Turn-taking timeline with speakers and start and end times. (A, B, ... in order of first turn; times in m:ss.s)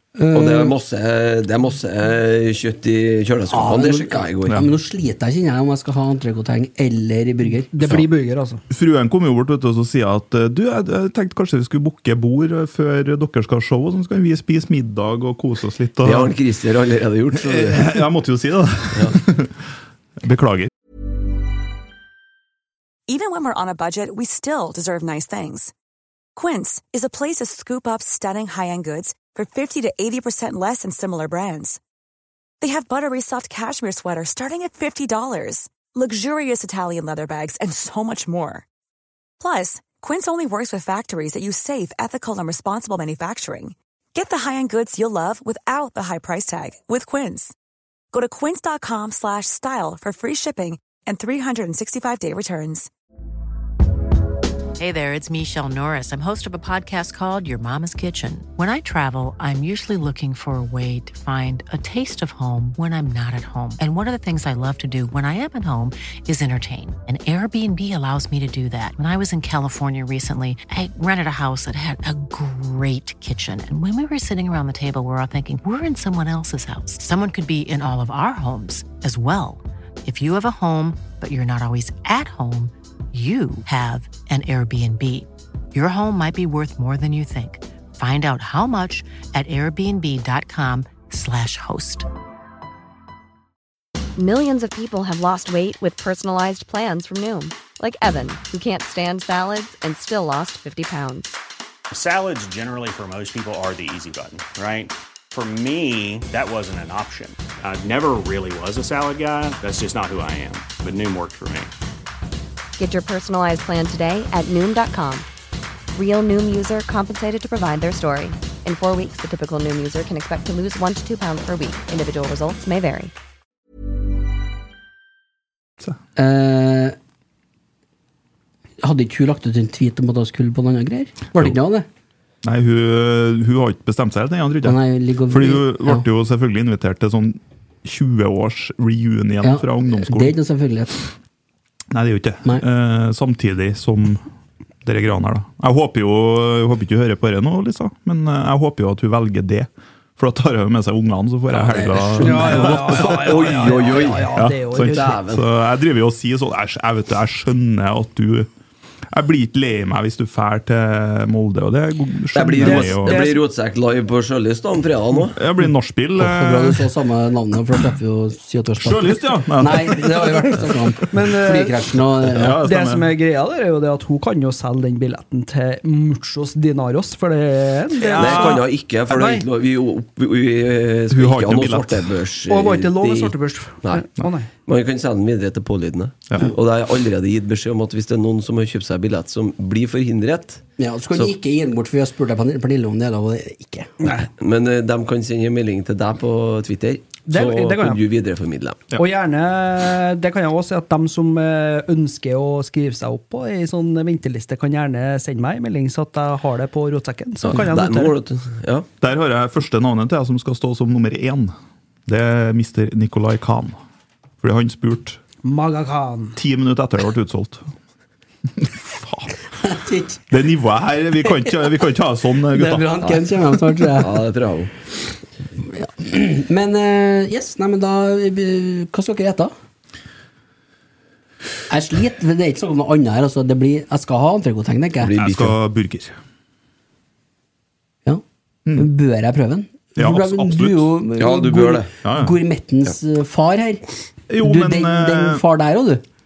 0:00.2-0:00.7 A
0:00.3-0:04.6 B
0:03.5-0:08.0 A
0:07.7-0:08.6 C
0:08.7-0:16.3 D
0:16.0-0:17.9 B
0:17.4-0:19.5 D
0:20.2-0:20.7 D
0:23.1-0:25.7 E
0:26.4-0:31.8 E
0:32.6-0:38.7 E
0:39.4-0:47.5 E
0:48.1-0:52.9 E
0:54.8-1:32.1 F
1:34.2-1:41.4 G
1:41.9-1:51.7 H
1:52.8-1:55.3 G
1:55.9-2:03.1 G
2:06.2-2:07.0 A
2:08.8-2:11.9 A
2:12.4-2:14.8 D
2:14.6-2:16.0 A
2:15.3-2:20.3 D
2:19.4-2:21.0 A
2:21.9-2:24.2 D
2:24.8-2:33.7 D
2:31.5-2:35.4 B
2:32.0-2:32.2 A
2:32.2-2:35.2 C
2:34.3-2:38.5 D
2:39.1-2:43.3 D
2:42.3-2:45.4 B
2:42.6-2:43.4 C
2:45.4-2:46.8 D
2:46.2-2:52.6 A
2:48.8-2:50.6 D
2:51.1-2:51.7 C
2:52.3-2:53.1 D
2:52.4-2:59.4 C
2:58.0-2:58.7 D
2:58.2-3:04.1 B
3:01.1-3:02.1 D
3:02.5-3:04.5 C
3:04.7-3:10.6 B
3:10.8-3:14.0 A
3:14.0-3:14.3 C
3:14.4-3:18.9 B
3:17.3-3:18.0 C
3:19.0-3:28.2 C
3:27.4-3:28.9 B
3:29.0-3:31.5 D
3:32.1-3:33.8 D
3:34.4-3:35.2 D
3:35.4-3:36.4 C
3:36.4-3:37.7 D
3:38.6-3:39.4 D
3:39.6-3:40.2 A
3:40.3-3:42.9 D
3:42.5-3:44.2 A
3:43.9-3:44.7 B
3:45.6-3:49.5 A
3:51.7-3:55.1 A
3:55.0-3:55.6 B
3:55.2-3:56.2 D
3:58.8-4:03.8 A
4:00.0-4:00.9 D
4:01.2-4:01.9 B
4:02.0-4:02.4 D
4:04.3-4:05.4 D
4:04.4-4:06.0 A